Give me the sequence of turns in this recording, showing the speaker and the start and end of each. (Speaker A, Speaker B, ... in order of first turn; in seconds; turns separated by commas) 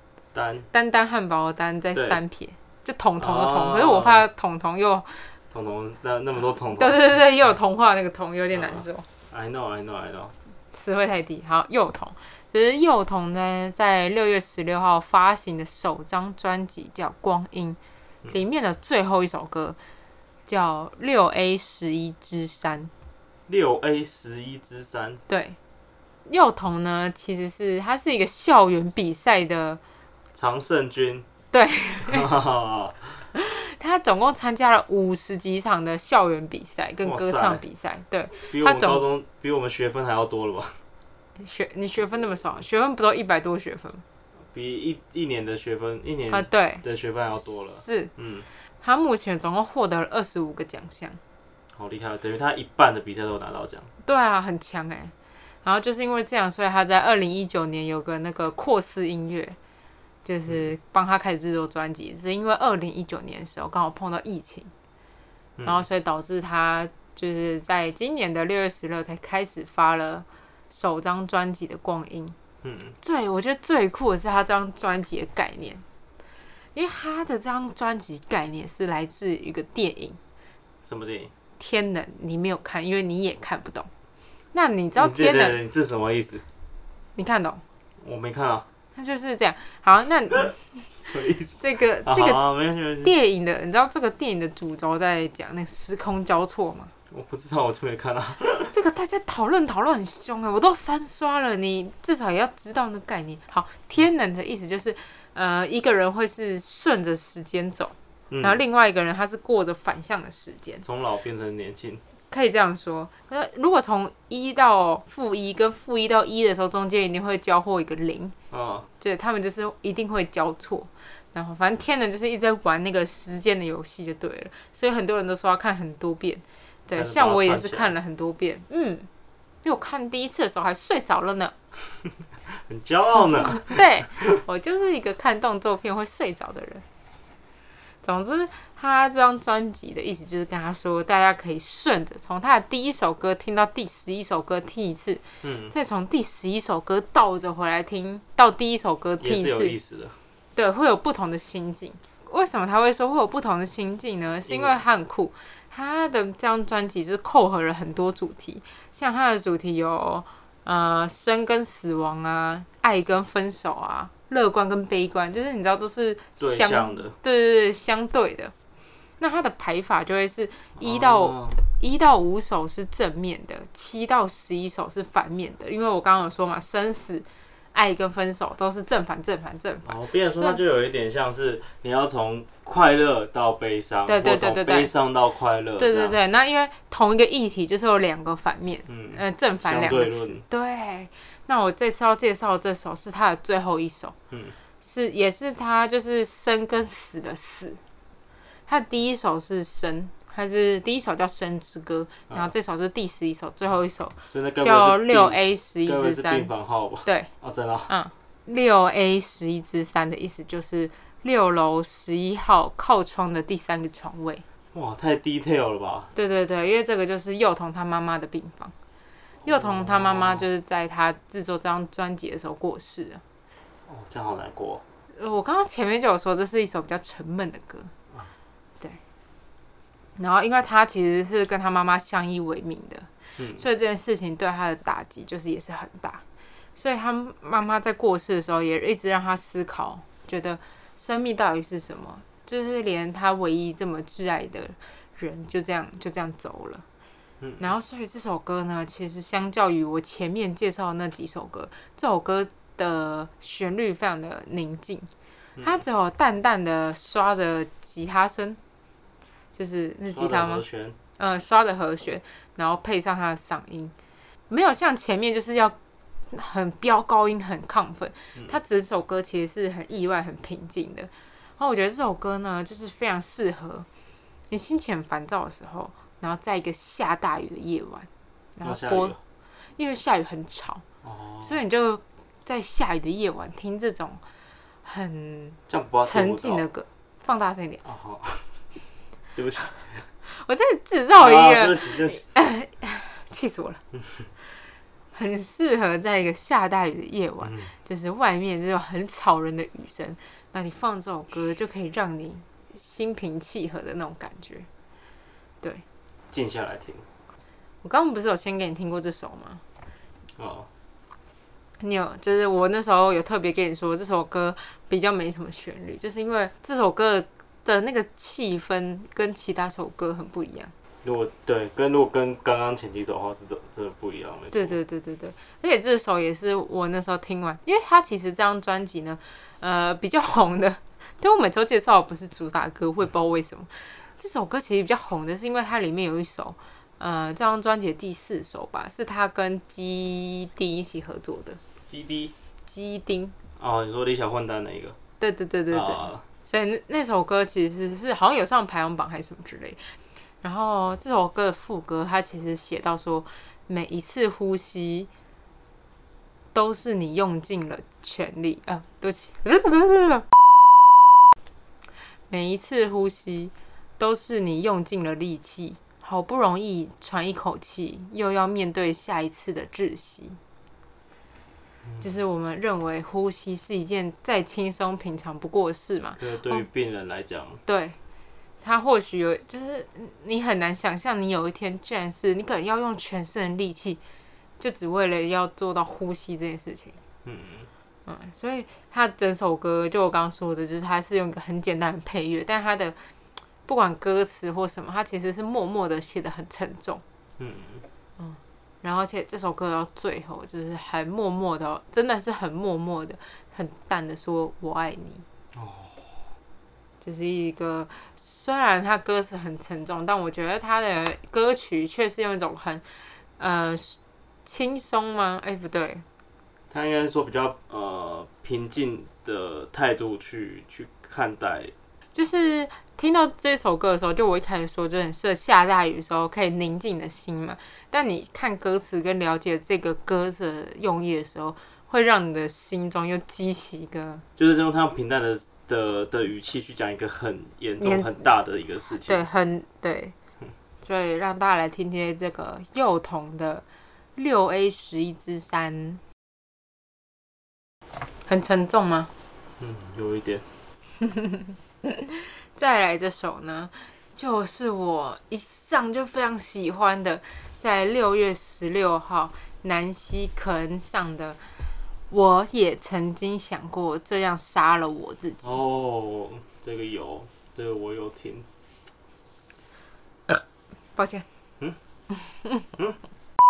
Speaker A: 0.3-0.7, Speaker B: 0.7-5.3, Speaker A: 1.9-2.2, Speaker A: 3.2-4.3, Speaker A: 5.5-7.0, Speaker B: 6.7-9.1, Speaker A: 8.5-10.3, Speaker B: 10.7-17.8, Speaker B: 18.3-19.8, Speaker B: 20.5-22.9, Speaker A: 23.5-25.2, Speaker B: 25.3-25.6, Speaker B: 26.3-29.8, Speaker A: 30.4-31.3, Speaker B: 31.5-32.3, Speaker A: 32.0-33.2, Speaker B: 33.3-39.0, Speaker A: 37.0-37.6, Speaker A: 38.5-40.8, Speaker B: 41.4-44.0, Speaker A: 44.5-48.5, Speaker B: 46.3-46.9, Speaker B: 47.4-48.1, Speaker B: 48.8-51.2, Speaker A: 51.8-53.9, Speaker B: 54.0-55.1, Speaker B: 55.6-59.6, Speaker B: 60.2-64.7, Speaker A: 65.6-65.8, Speaker B: 65.7-72.4, Speaker A: 72.6-73.0, Speaker B: 73.0-75.8, Speaker B: 76.8-80.2, Speaker A: 80.8-81.3, Speaker B: 81.6-83.9, Speaker B: 84.5-85.6, Speaker A: 85.0-86.4, Speaker B: 87.2-87.6, Speaker A: 88.0-88.7, Speaker B: 89.0-91.0, Speaker A: 91.0-93.1, Speaker B: 91.6-92.4, Speaker B: 93.0-96.9, Speaker A: 97.1-98.7, Speaker B: 98.7-110.8, Speaker A: 108.3-108.6, Speaker A: 110.8-112.0, Speaker B: 112.3-118.3, Speaker A: 118.5-118.9, Speaker B: 119.0-129.1, Speaker A: 126.9-127.9, Speaker B: 129.6-131.5, Speaker A: 132.5-134.2, Speaker B: 133.2-136.8, Speaker B: 138.0-149.8, Speaker A: 145.4-145.7, Speaker A: 149.2-150.2, Speaker B: 150.6-168.5, Speaker A: 154.5-154.8, Speaker A: 166.4-167.2, Speaker B: 169.2-180.6, Speaker A: 170.8-171.6, Speaker A: 179.9-186.2, Speaker B: 184.1-184.9, Speaker B: 185.8-194.2, Speaker A: 188.9-190.4, Speaker A: 194.3-194.6, Speaker B: 194.8-197.8, Speaker B: 198.7-206.5, Speaker A: 204.3-207.9, Speaker B: 207.9-214.4, Speaker A: 214.7-216.1, Speaker B: 216.2-218.7, Speaker A: 219.4-220.5, Speaker B: 219.4-223.2, Speaker A: 223.9-224.8, Speaker B: 225.2-227.9, Speaker B: 230.2-236.2, Speaker A: 233.4-233.6, Speaker B: 236.8-246.8, Speaker A: 247.4-247.7, Speaker B: 247.6-255.1, Speaker B: 255.6-258.6, Speaker B: 259.5-260.6, Speaker A: 260.1-261.0, Speaker B: 261.2-263.9, Speaker B: 264.5-265.8, Speaker B: 266.3-273.9, Speaker B: 274.5-279.2, Speaker A: 278.6-279.2, Speaker B: 279.8-280.8, Speaker A: 281.0-281.6, Speaker B: 281.4-284.2, Speaker B: 284.8-287.8, Speaker A: 285.7-286.6, Speaker A: 287.8-288.5, Speaker A: 289.4-290.1, Speaker B: 290.3-293.8, Speaker A: 291.2-292.2, Speaker B: 295.1-304.7, Speaker A: 297.4-297.7, Speaker A: 306.3-307.1, Speaker B: 307.8-309.6, Speaker A: 310.4-310.7, Speaker B: 311.8-320.7, Speaker A: 321.0-324.8, Speaker B: 324.5-341.6, Speaker A: 341.9-342.3, Speaker B: 342.7-343.4, Speaker A: 343.6-345.0, Speaker B: 345.2-355.1, Speaker A: 345.7-346.2, Speaker B: 356.5-360.3, Speaker B: 362.3-370.4, Speaker B: 372.0-376.6, Speaker A: 376.2-377.6, Speaker B: 377.7-378.0, Speaker B: 378.6-384.0, Speaker B: 384.6-387.0, Speaker A: 387.2-387.7, Speaker B: 388.1-393.0, Speaker B: 393.7-397.0, Speaker A: 397.4-397.8, Speaker B: 398.2-405.2, Speaker A: 405.5-406.2, Speaker B: 407.0-412.8, Speaker B: 413.4-416.1, Speaker A: 416.7-421.7, Speaker B: 422.1-434.2, Speaker A: 434.4-439.3, Speaker B: 437.8-438.1, Speaker B: 439.1-440.1, Speaker B: 440.8-443.6, Speaker B: 444.2-446.0, Speaker B: 448.3-449.1, Speaker A: 449.6-450.4, Speaker B: 451.0-461.4, Speaker B: 462.1-465.6, Speaker A: 465.4-468.5, Speaker B: 471.0-471.3